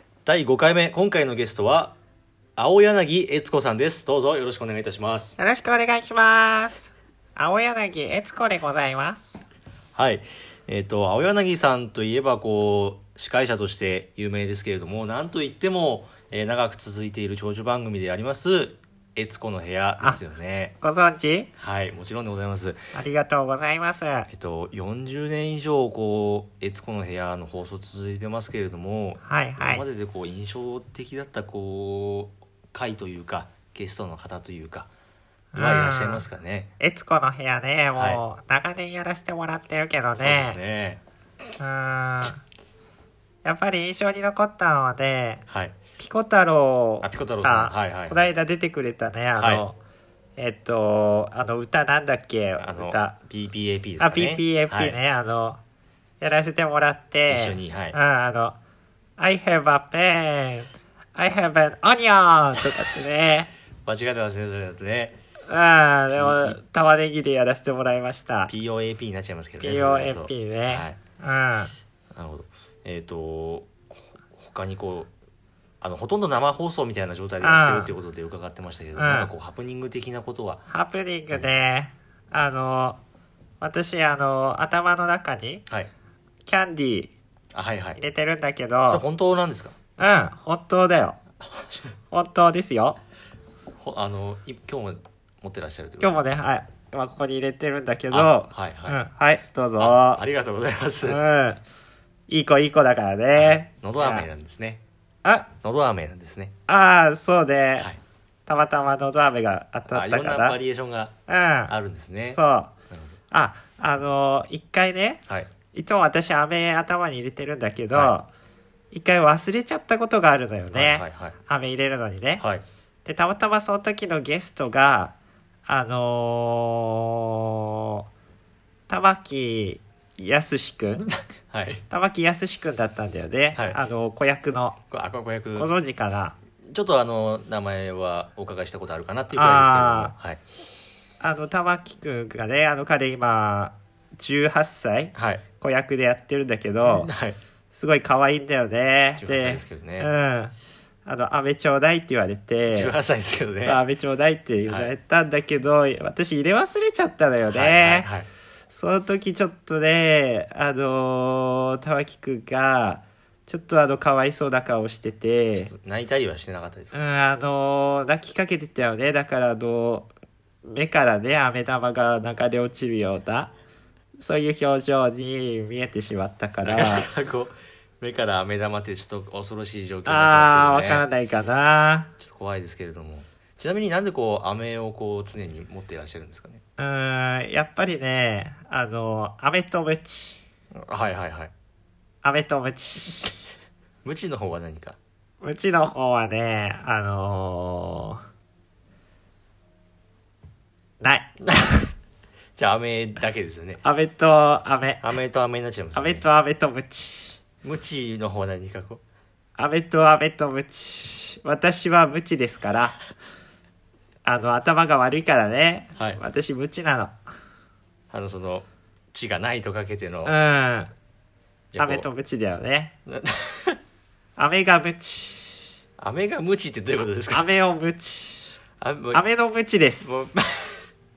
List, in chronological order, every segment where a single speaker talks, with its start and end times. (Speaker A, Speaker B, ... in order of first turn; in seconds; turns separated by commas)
Speaker A: 0.3-2.0, Speaker A: 2.6-5.4, Speaker B: 5.4-9.4, Speaker A: 10.0-20.8, Speaker B: 20.8-21.5, Speaker A: 21.6-22.8, Speaker B: 22.9-24.3, Speaker A: 24.3-34.9, Speaker B: 29.2-29.9, Speaker B: 35.5-36.2, Speaker A: 35.5-36.7, Speaker B: 36.8-40.6, Speaker A: 38.0-38.2, Speaker A: 40.2-41.0, Speaker B: 41.6-42.4, Speaker B: 43.4-45.4, Speaker A: 45.5-45.8, Speaker B: 46.0-49.8, Speaker A: 47.0-48.2, Speaker A: 49.4-49.6, Speaker B: 50.4-53.2, Speaker A: 52.6-55.0, Speaker B: 54.0-55.6, Speaker B: 56.2-58.6, Speaker A: 57.3-58.0, Speaker B: 59.2-63.5, Speaker A: 63.9-65.2, Speaker B: 65.5-68.5, Speaker A: 66.1-66.6, Speaker A: 68.5-71.0, Speaker B: 69.6-71.7, Speaker A: 72.1-73.7, Speaker A: 74.4-75.1, Speaker A: 75.8-80.6, Speaker B: 77.4-77.9, Speaker B: 79.0-79.3, Speaker B: 80.7-83.0, Speaker B: 83.6-85.6, Speaker B: 86.5-87.1, Speaker A: 87.5-88.0, Speaker B: 88.0-89.0, Speaker A: 88.9-89.8, Speaker B: 90.0-91.2, Speaker B: 92.1-93.0, Speaker A: 93.8-96.2, Speaker B: 96.0-100.2, Speaker A: 98.1-99.0, Speaker A: 99.8-101.2, Speaker B: 101.0-101.6, Speaker B: 102.3-104.3, Speaker A: 103.3-104.8, Speaker B: 105.2-105.5, Speaker A: 105.6-106.5, Speaker B: 106.7-107.9, Speaker B: 108.5-110.6, Speaker A: 109.9-111.1, Speaker B: 111.3-111.7, Speaker A: 111.7-113.1, Speaker B: 112.3-112.7, Speaker B: 113.3-115.2, Speaker B: 115.7-118.3, Speaker B: 118.9-122.4, Speaker A: 120.7-121.4, Speaker A: 122.4-122.6, Speaker B: 123.1-125.2, Speaker B: 125.7-128.1, Speaker B: 128.9-131.1, Speaker A: 131.5-131.8, Speaker B: 131.9-134.8, Speaker A: 133.5-133.8, Speaker A: 134.9-135.7, Speaker B: 135.6-136.3, Speaker A: 136.7-140.4, Speaker B: 139.3-140.2, Speaker B: 141.2-147.1, Speaker A: 145.1-145.4, Speaker A: 146.8-147.4, Speaker B: 147.7-150.5, Speaker A: 149.2-150.1, Speaker B: 151.1-152.9, Speaker A: 152.7-153.8, Speaker B: 153.6-158.1, Speaker A: 154.7-154.9, Speaker A: 157.5-158.3, Speaker B: 158.7-165.7, Speaker A: 165.6-167.0, Speaker B: 166.9-170.1, Speaker B: 170.6-173.5, Speaker B: 174.2-177.1, Speaker A: 176.7-181.1, Speaker B: 180.1-182.1, Speaker A: 182.2-186.6, Speaker B: 186.8-190.4, Speaker A: 190.8-191.5, Speaker B: 192.2-193.3, Speaker A: 194.0-195.0, Speaker B: 195.4-198.2, Speaker B: 201.0-201.3, Speaker A: 201.4-201.9, Speaker A: 202.6-203.8, Speaker B: 203.8-205.1, Speaker A: 205.0-206.2, Speaker B: 205.9-207.4, Speaker A: 207.6-209.0, Speaker B: 209.6-213.0, Speaker B: 214.2-217.2, Speaker A: 218.1-220.3, Speaker B: 220.2-220.9, Speaker A: 221.7-222.1, Speaker B: 221.8-222.9, Speaker A: 223.1-223.8, Speaker B: 224.4-225.7, Speaker A: 226.0-227.4, Speaker B: 227.3-228.6, Speaker A: 228.8-229.2, Speaker B: 229.1-230.3, Speaker A: 230.0-230.8